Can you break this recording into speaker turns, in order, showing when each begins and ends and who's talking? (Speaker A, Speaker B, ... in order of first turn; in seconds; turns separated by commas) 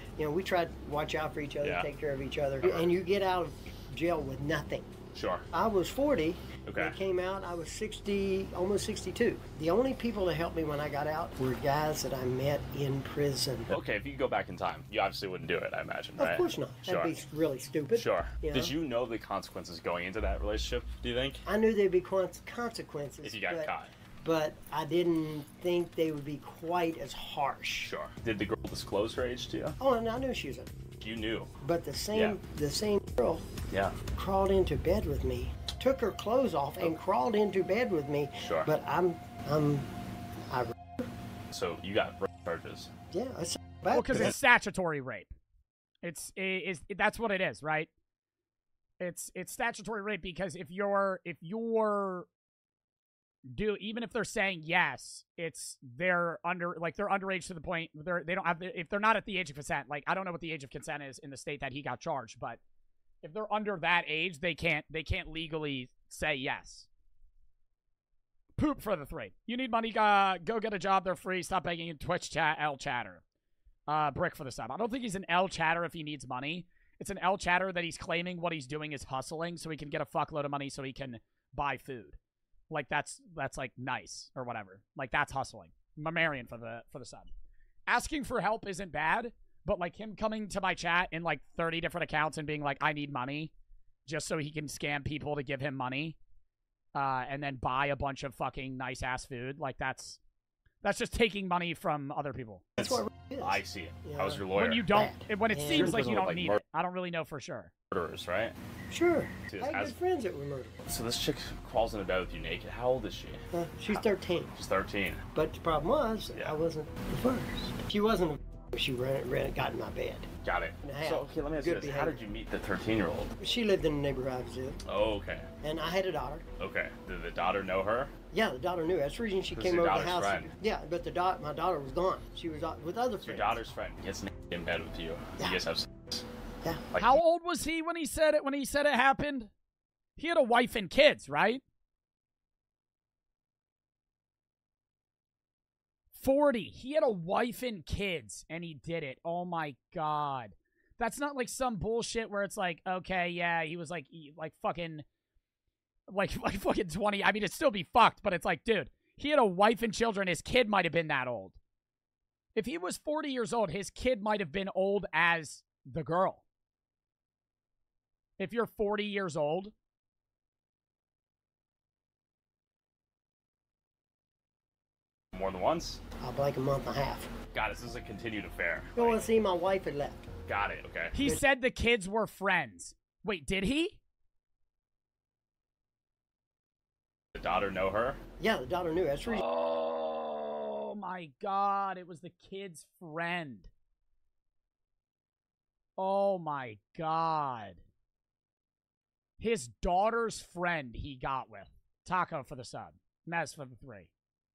Speaker A: 0.2-4.9, Speaker B: 1.6-1.9, Speaker B: 2.6-2.9, Speaker B: 5.1-5.4, Speaker A: 5.5-13.7, Speaker B: 6.6-6.9, Speaker B: 13.7-17.1, Speaker A: 16.2-18.8, Speaker B: 17.9-21.4, Speaker A: 21.4-27.9, Speaker B: 23.2-23.9, Speaker B: 27.8-29.8, Speaker A: 29.8-30.7, Speaker B: 31.0-31.5, Speaker A: 31.6-33.5, Speaker B: 32.1-32.4, Speaker B: 33.7-33.9, Speaker A: 34.1-39.9, Speaker B: 38.4-38.7, Speaker A: 40.4-41.0, Speaker B: 41.5-42.9, Speaker A: 43.1-44.3, Speaker C: 43.9-45.3, Speaker C: 46.0-47.9, Speaker C: 49.0-52.3, Speaker C: 53.5-62.6, Speaker C: 63.2-66.9, Speaker C: 68.6-73.2, Speaker C: 73.9-82.2, Speaker C: 82.7-87.3, Speaker C: 87.9-93.5, Speaker C: 94.0-96.2, Speaker C: 96.9-100.2, Speaker C: 100.8-102.7, Speaker B: 102.8-104.8, Speaker A: 102.8-106.2, Speaker C: 104.5-107.7, Speaker B: 105.7-106.6, Speaker B: 107.9-108.5, Speaker A: 108.9-110.8, Speaker B: 109.5-109.9, Speaker B: 110.9-114.0, Speaker A: 113.5-114.5, Speaker B: 114.5-115.2, Speaker A: 115.3-120.3, Speaker B: 120.4-123.3, Speaker A: 120.8-122.2, Speaker A: 123.4-124.8, Speaker B: 124.8-125.5, Speaker A: 125.6-126.4, Speaker B: 126.6-128.1, Speaker A: 128.3-133.7, Speaker B: 129.5-130.5, Speaker B: 133.2-136.2, Speaker C: 137.0-139.5, Speaker C: 140.2-141.6, Speaker C: 146.1-155.0, Speaker C: 156.1-161.6, Speaker C: 162.5-166.4, Speaker C: 168.4-169.7, Speaker B: 175.3-176.0, Speaker A: 176.2-177.3, Speaker B: 177.5-179.2, Speaker A: 178.9-180.2, Speaker B: 180.5-181.1, Speaker C: 181.1-184.0, Speaker B: 187.3-188.2, Speaker A: 188.4-189.4, Speaker C: 189.3-193.7, Speaker C: 196.0-197.8, Speaker C: 199.4-204.1